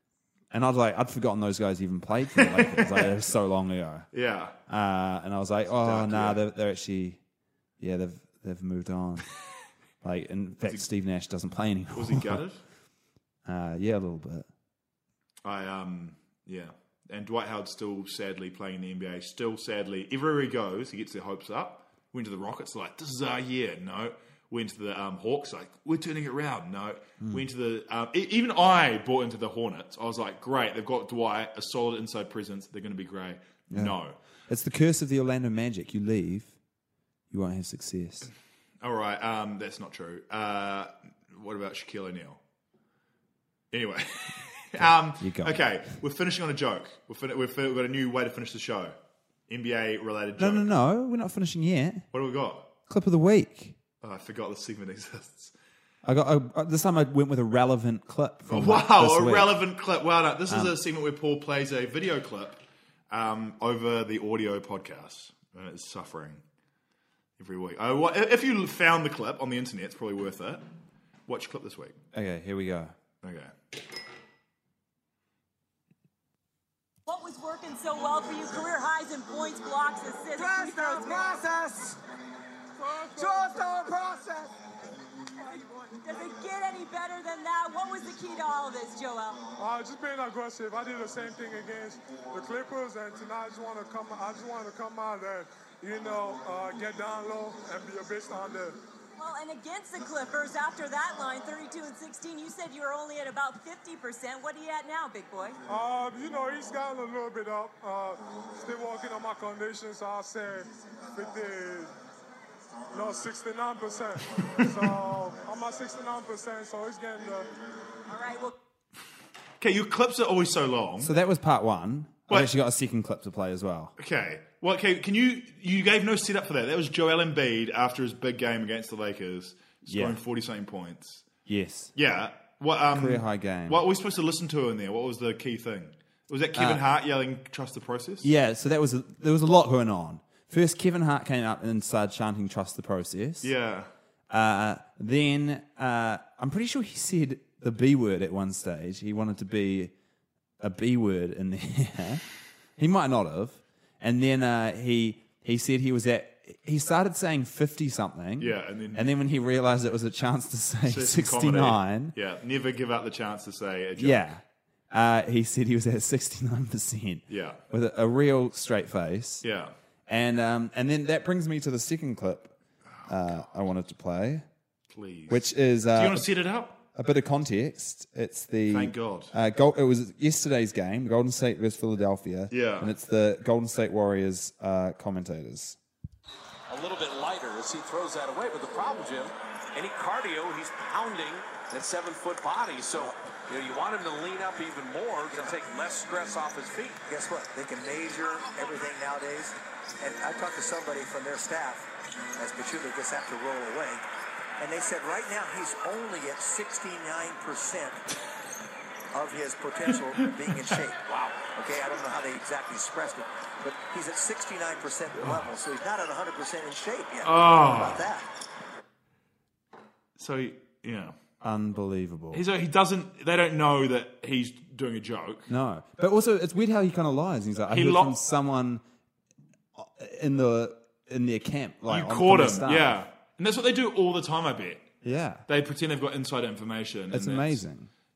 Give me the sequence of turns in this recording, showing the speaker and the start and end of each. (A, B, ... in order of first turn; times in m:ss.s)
0:00.5-0:04.1 A
0:02.4-0:03.1 B
0:04.1-0:04.5 B
0:04.7-0:07.2 A
0:05.8-0:06.4 B
0:07.8-0:09.2 A
0:10.0-0:12.4 A
0:11.9-0:12.6 B
0:13.4-0:14.5 A
0:15.4-0:34.2 B
0:33.7-0:36.5 A
0:37.3-0:38.3 A
0:38.8-0:42.4 B
0:43.7-0:48.9 B
0:44.8-0:45.9 A
0:49.5-0:50.7 B
0:50.4-0:52.1 A
0:52.1-0:52.7 B
0:52.9-0:53.8 A
0:54.0-0:55.5 B
0:56.0-0:59.6 A
0:58.5-1:06.4 B
1:00.5-1:00.8 A
1:07.4-1:10.6 B
1:11.3-1:12.0 B
1:12.1-1:12.9 A
1:13.2-1:13.5 B
1:17.0-1:21.4 C
1:20.3-1:22.0 D
1:22.8-1:23.4 E
1:23.2-1:24.5 D
1:25.5-1:29.4 C
1:29.6-1:38.8 E
1:39.2-1:45.6 C
1:45.7-1:51.9 E
1:52.9-1:57.5 E
1:54.4-1:54.7 B
1:58.1-1:58.5 C
1:59.6-2:01.1 B
2:01.0-2:03.9 A
2:04.0-2:11.2 B
2:09.8-2:10.2 A
2:11.4-2:11.9 A
2:11.9-2:18.3 B
2:12.9-2:13.8 A
2:16.5-2:16.8 A
2:18.2-2:23.5 A
2:23.4-2:23.9 B
2:24.3-2:29.9 A
2:30.6-2:32.2 A
2:32.8-2:42.1 A
2:38.4-2:39.1 B
2:40.8-2:44.2 B
2:44.0-2:49.4 A
2:47.3-2:47.6 B
2:49.4-2:49.7 B
2:50.1-2:52.5 A
2:53.0-2:53.4 B
2:53.0-2:54.4 A
2:54.9-2:56.8 B
2:55.3-2:56.3 A
2:56.8-3:05.8 A
2:58.7-2:59.3 B
3:02.5-3:02.9 B
3:06.7-3:17.0 F
3:15.2-3:15.6 G
3:17.0-3:24.0 G
3:24.6-3:28.0 G
3:29.1-3:38.3 G
3:37.2-3:38.1 B
3:40.2-3:41.2 B
3:41.4-3:42.4 A
3:42.3-3:45.5 B
3:45.5-3:48.8 A
3:47.7-3:48.2 B
3:49.8-3:53.0 A
3:51.9-3:54.8 B
3:55.0-3:55.4 A
3:55.5-3:57.6 B
3:57.1-3:57.9 A